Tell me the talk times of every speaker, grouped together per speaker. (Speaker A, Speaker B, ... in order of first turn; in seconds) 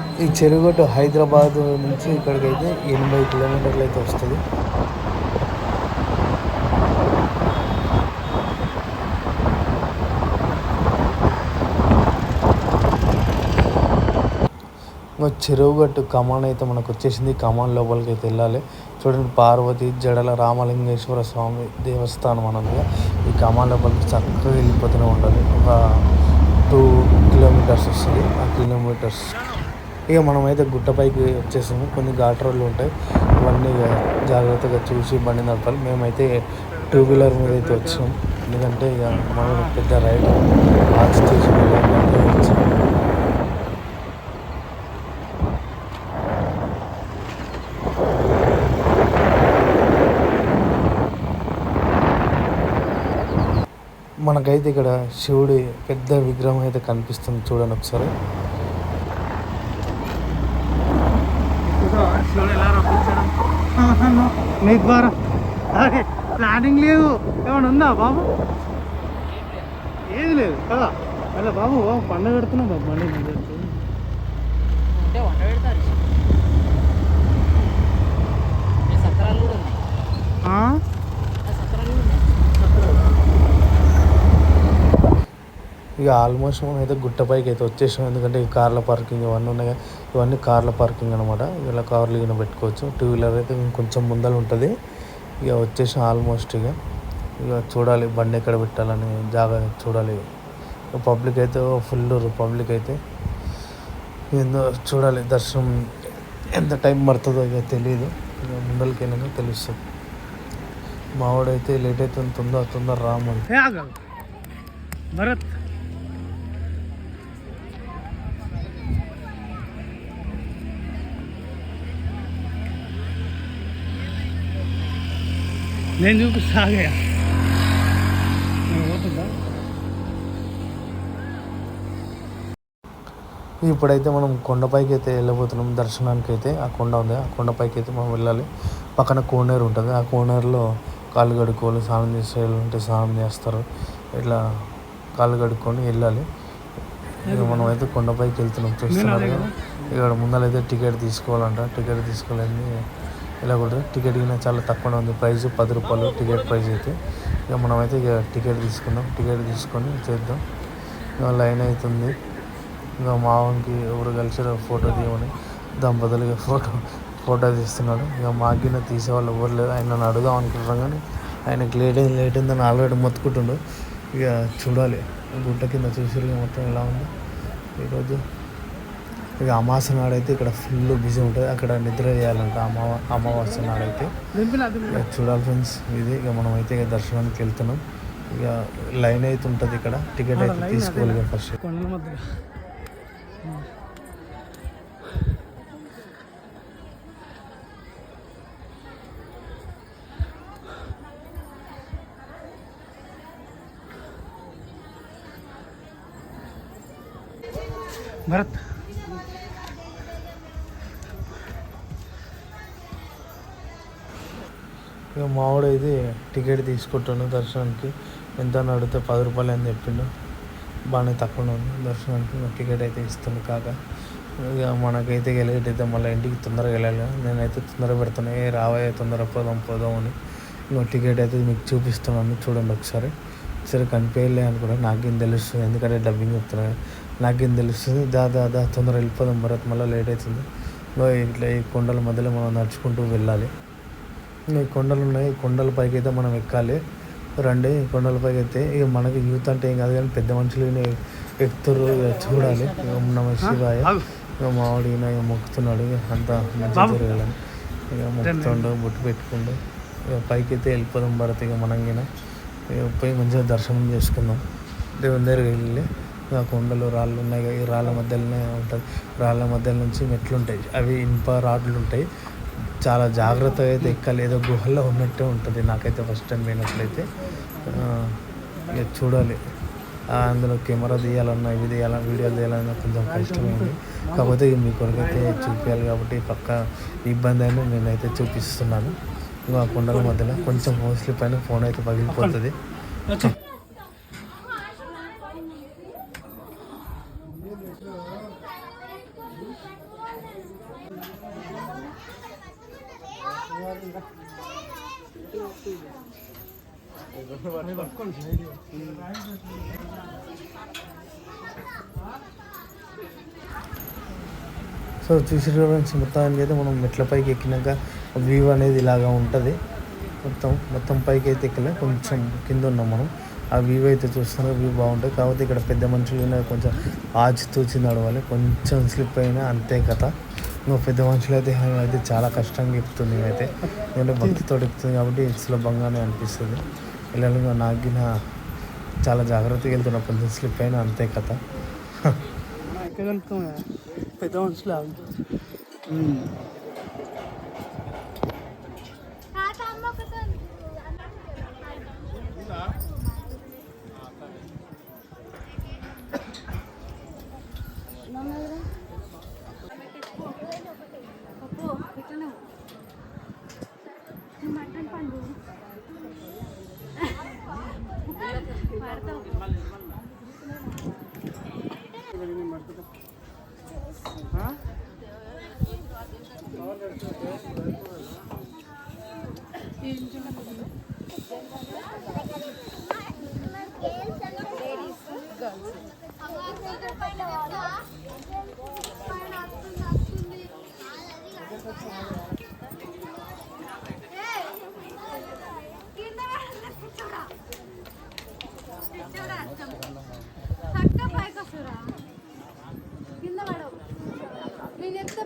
Speaker A: 0.2-4.4, 15.2-25.8, 26.7-29.4, 30.1-36.3, 36.9-42.8, 54.3-58.1, 86.0-94.7, 95.4-96.8, 97.4-100.2, 101.0-103.0, 104.3-105.7, 106.5-109.8, 111.2-113.5, 133.7-140.6, 141.2-143.7, 145.2-146.2, 147.3-152.7, 153.4-157.0, 157.5-160.4, 161.2-162.2, 163.0-173.6, 174.1-177.1, 177.8-178.2, 179.4-184.1, 184.9-187.8, 188.3-191.6, 215.2-220.1, 220.9-223.8, 224.4-230.2, 230.7-233.1, 233.7-240.4, 241.0-243.5, 244.5-246.8, 247.4-262.1, 262.7-264.4, 265.0-272.1, 272.8-277.1, 277.6-279.4, 280.1-289.0, 289.5-292.6, 315.0-319.6, 320.2-330.1, 330.7-338.1, 339.0-341.4
Speaker B: 37.3-38.0, 61.6-65.2, 65.7-68.3, 70.1-73.8, 80.5-80.8, 113.5-114.0, 115.1-115.6, 126.0-127.0, 128.7-129.3, 147.3-147.7, 148.9-149.6, 184.3-185.0, 190.3-192.4, 208.3-208.6, 253.4-254.1, 256.8-257.0, 258.2-258.7, 283.1-284.3, 285.1-285.5, 292.1-292.4, 293.1-293.3, 307.7-308.5, 342.7-343.7, 344.2-345.1, 345.9-346.3
Speaker C: 75.0-76.0, 78.9-79.8, 81.5-82.3, 380.1-380.4